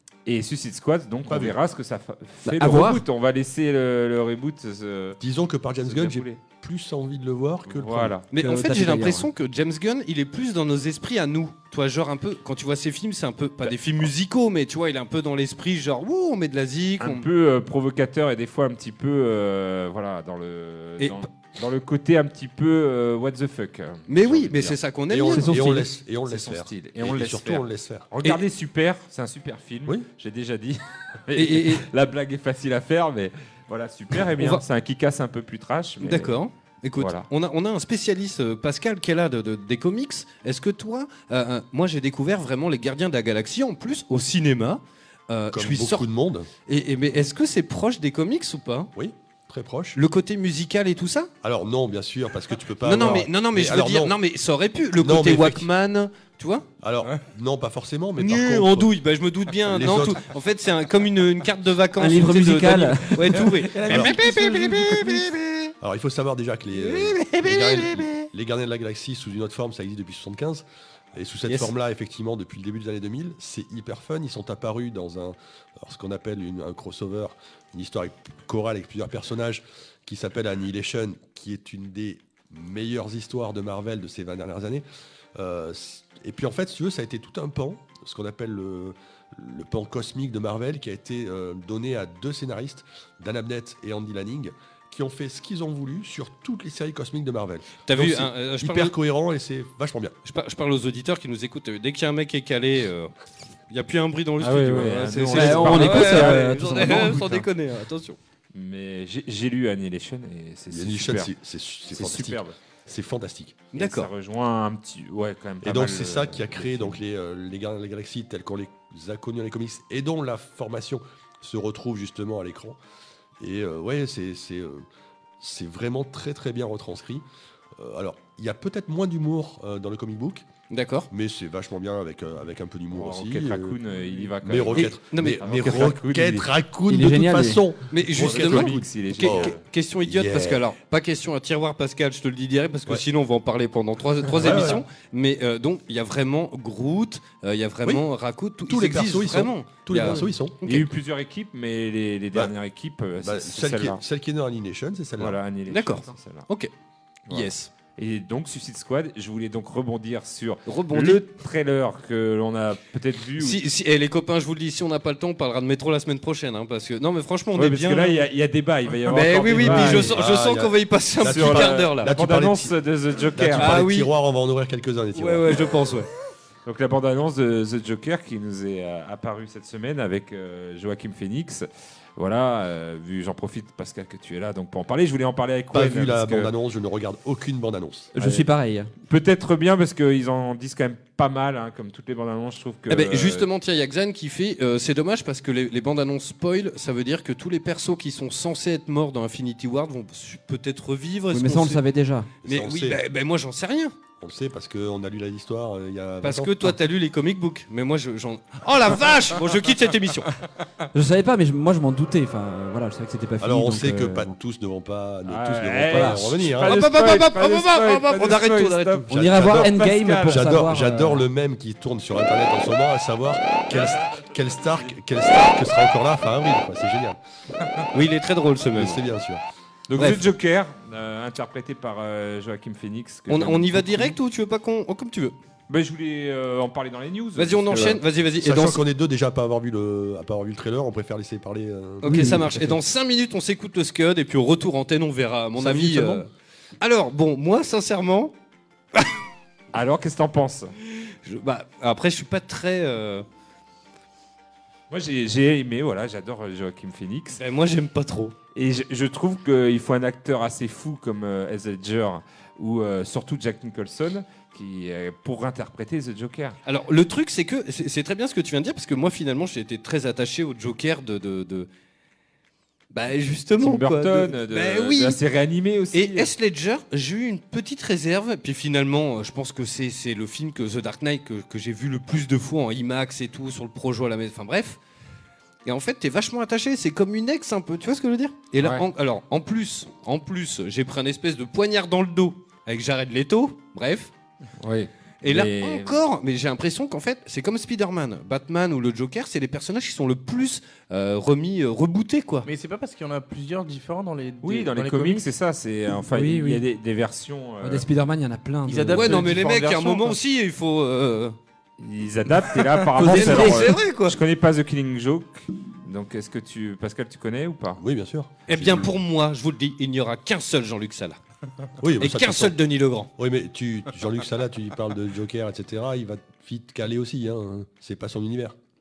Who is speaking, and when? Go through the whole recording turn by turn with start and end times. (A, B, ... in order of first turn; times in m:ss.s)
0:00.3-0:05.2 A
0:01.3-0:01.6 B
0:02.4-0:03.0 C
0:05.2-0:08.2 B
0:05.8-0:06.4 A
0:07.7-0:08.3 A
0:08.3-0:17.3 D
0:08.4-0:09.3 C
0:17.0-0:24.8 A
0:24.1-0:25.5 D
0:25.1-0:28.1 B
0:25.4-0:25.9 C
0:26.3-0:36.4 A
0:31.4-0:31.9 D
0:34.4-0:34.6 D
0:36.0-0:46.0 D
0:37.0-0:37.3 A
0:45.5-0:46.5 B
0:46.7-0:48.9 D
0:49.0-0:50.0 B
0:50.0-0:51.3 D
0:51.4-0:54.2 B
0:52.8-0:56.7 D
0:55.0-0:55.7 B
0:56.8-0:58.9 B
0:58.2-1:05.7 D
0:59.7-1:00.2 B
1:02.0-1:03.5 C
1:03.4-1:05.3 E
1:03.9-1:04.2 B
1:05.8-1:24.8 B
1:06.7-1:08.3 D
1:25.4-1:40.1 B
1:37.9-1:39.0 D
1:40.2-1:43.1 D
1:43.7-1:48.2 D
1:44.4-1:47.4 A
1:45.3-1:47.1 C
1:48.5-1:51.3 A
1:50.7-1:53.6 B
1:51.9-1:52.6 A
1:53.7-1:54.1 D
1:53.8-1:57.0 A
1:55.6-2:02.8 B
2:03.4-2:04.9 B
2:05.4-2:07.2 B
2:07.8-2:10.5 B
2:10.7-2:11.1 D
2:11.1-2:13.8 B
2:12.9-2:16.5 A
2:14.4-2:20.6 B
2:14.7-2:15.5 D
2:16.9-2:17.6 C
2:17.9-2:30.9 D
2:18.2-2:19.6 A
2:24.3-2:24.8 A
2:24.4-2:24.8 B
2:28.7-2:30.6 B
2:30.6-2:34.0 A
2:33.2-2:35.4 B
2:35.2-2:36.5 A
2:35.7-2:36.7 D
2:37.3-2:37.7 D
2:37.3-2:43.6 A
2:40.7-2:41.2 D
2:43.4-2:48.3 D
2:47.6-2:50.2 A
2:49.1-2:52.1 D
2:49.6-2:52.8 B
2:51.2-2:53.8 A
2:53.3-2:55.8 B
2:53.6-2:54.1 D
2:55.2-2:56.1 D
2:56.7-3:06.5 A
3:05.7-3:08.4 B
3:08.2-3:08.9 C
3:09.1-3:13.5 A
3:12.9-3:21.8 D
3:21.3-3:22.3 C
3:22.4-3:23.0 B
3:22.4-3:23.9 D
3:24.2-3:26.7 B
3:26.2-3:30.3 D
3:30.9-3:34.4 C
3:33.4-3:36.8 B
3:35.3-3:40.6 A
3:35.9-3:36.2 C
3:36.6-3:39.0 D
3:39.1-3:41.3 C
3:39.1-3:47.2 B
3:47.9-3:49.1 D
3:48.8-3:49.4 B
3:49.9-3:54.1 A
3:50.0-3:50.2 B
3:53.3-3:55.4 D
3:55.7-3:58.0 A
3:57.4-3:58.8 D
3:58.4-4:02.7 B
4:02.0-4:06.3 D
4:02.1-4:02.4 C
4:05.6-4:06.3 B
4:06.8-4:08.3 D
4:09.7-4:10.7 A
4:11.2-4:13.2 D
4:14.9-4:17.4 A
4:17.4-4:18.4 D
4:18.6-4:26.6 A
4:26.7-4:31.7 D
4:32.9-4:35.2 D
4:33.6-4:36.3 A
4:35.9-4:44.8 D
4:45.7-4:54.1 D
4:54.6-4:56.0 A
4:55.2-5:02.5 D
5:02.4-5:05.3 E
5:04.4-5:07.9 A
5:06.1-5:06.6 C
5:07.6-5:09.4 C
5:08.7-5:10.2 E
5:08.9-5:11.4 D
5:11.8-5:17.8 A
5:13.0-5:14.2 D
5:13.0-5:13.7 C
5:17.8-5:18.9 B
5:18.5-5:21.2 D
5:21.8-5:22.6 B
5:22.0-5:23.1 D
5:23.2-5:28.6 B